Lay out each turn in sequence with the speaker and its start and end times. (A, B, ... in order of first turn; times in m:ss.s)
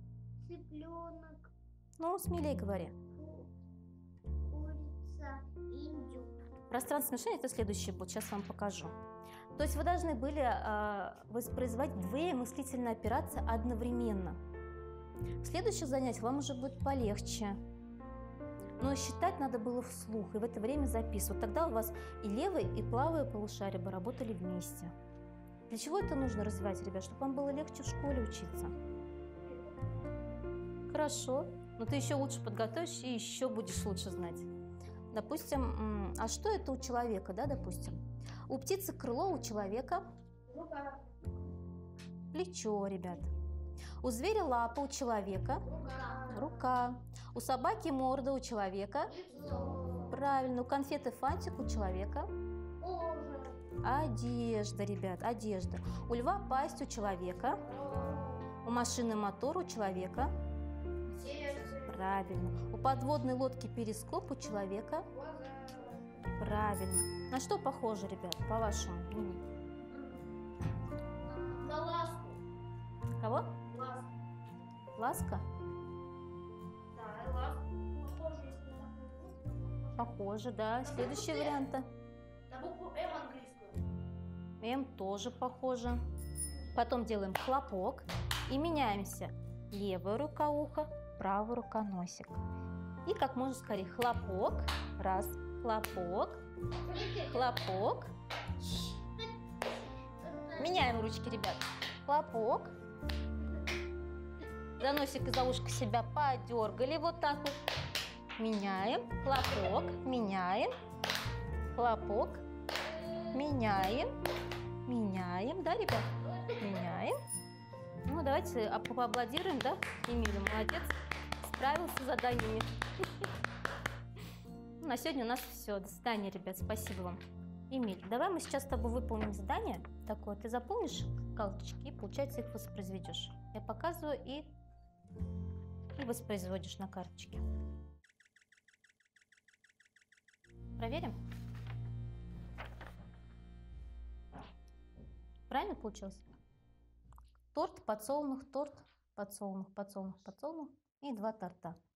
0:00.4-0:01.5 A
0:02.0-0:03.0 B
0:03.2-0:03.5 A
0:04.5-0:06.3 A
0:06.7-0:08.9 B
0:09.6-0:14.4 B
0:15.4-0:17.6 B
0:18.8-0:24.9 B
0:25.7-0:28.7 B
0:30.9-0:34.5 B
0:35.1-0:40.1 B
0:40.5-0:41.0 A
0:42.3-0:43.3 B
0:44.0-0:45.7 B
0:45.8-0:46.3 A
0:46.3-0:49.2 B
0:49.2-0:50.1 A
0:50.1-0:52.3 B
0:52.8-0:53.6 A
0:53.8-0:57.6 B
0:57.9-0:58.3 A
0:58.6-1:00.4 B
1:01.2-1:01.7 A
1:01.8-1:05.1 B
1:06.4-1:09.4 B
1:11.5-1:11.8 A
1:13.2-1:13.6 B
1:15.0-1:15.4 B
1:17.0-1:19.5 A
1:20.0-1:21.9 B
1:22.6-1:23.4 A
1:24.6-1:26.0 B
1:26.7-1:32.4 B
1:33.1-1:36.4 B
1:37.1-1:38.1 B
1:40.2-1:40.5 A
1:40.6-1:42.7 B
1:44.8-1:47.6 B
1:48.4-1:50.7 B
1:51.7-1:52.4 B
1:53.3-1:54.1 B
1:54.8-1:57.2 B
1:58.1-2:02.7 B
2:04.8-2:14.6 B
2:16.0-2:17.4 B
2:20.8-2:21.2 B
2:25.5-2:26.2 B
2:27.5-2:31.8 B